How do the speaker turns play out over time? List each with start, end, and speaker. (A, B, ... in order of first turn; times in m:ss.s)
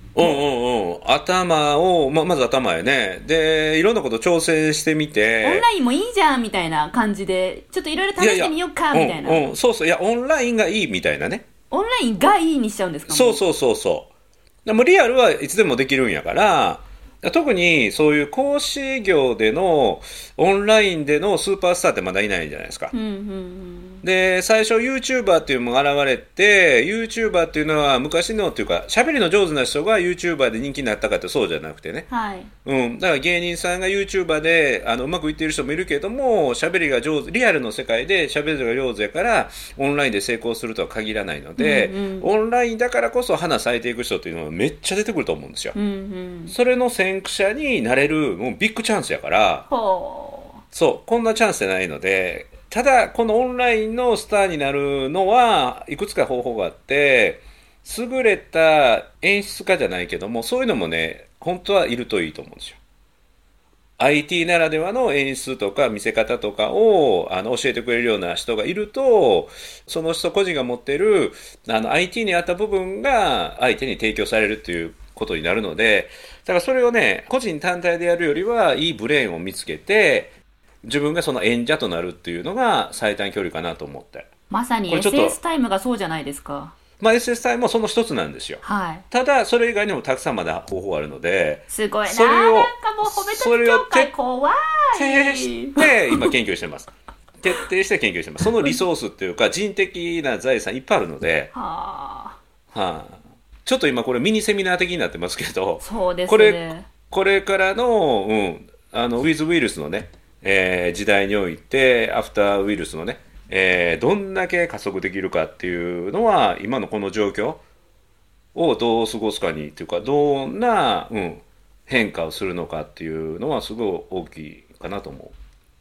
0:00.2-0:05.6 A
0:05.4-0:09.5 B
0:08.2-0:11.4 A
0:11.7-0:13.4 B
0:13.1-0:14.1 A
0:14.7-0:22.9 A
0:22.9-0:24.0 B
0:24.0-0:32.1 A
0:32.1-0:32.5 B
0:32.6-0:45.8 A
0:41.6-0:42.3 B
0:45.8-0:46.6 B
0:46.5-0:49.7 A
0:49.7-0:50.6 B
0:50.7-1:02.8 A
1:04.0-1:24.3 A
1:24.5-1:26.7 B
1:24.9-1:25.4 A
1:27.0-1:34.1 A
1:28.6-1:29.0 B
1:31.7-1:36.3 B
1:35.0-1:41.5 A
1:41.5-1:42.4 B
1:42.7-1:57.6 A
1:45.8-1:46.8 B
1:58.5-2:05.4 A